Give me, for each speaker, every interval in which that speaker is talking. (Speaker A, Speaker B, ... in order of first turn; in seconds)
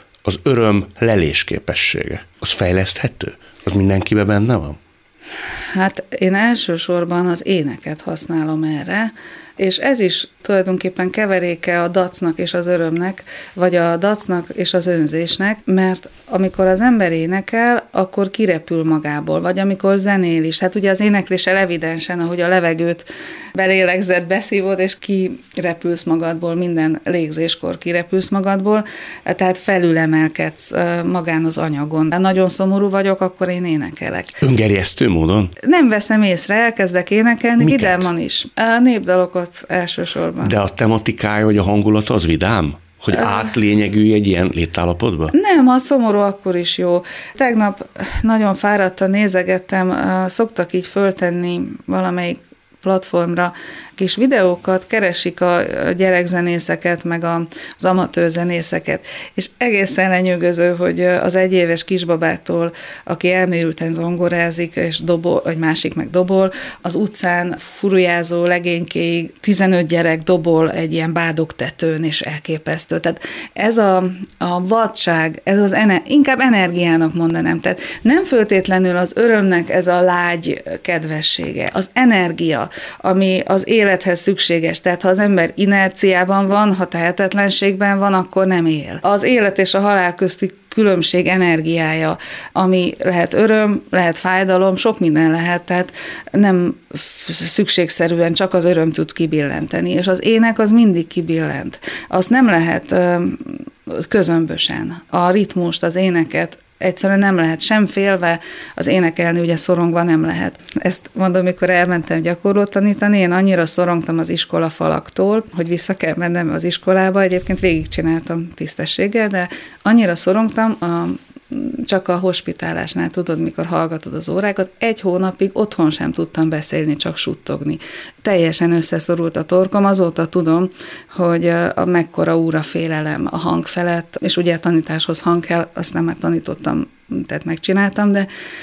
Speaker A: 0.2-4.8, 34.4-35.5, 37.6-38.1, 40.4-45.3
Speaker B: 5.7-34.4, 35.6-40.6, 45.3-138.3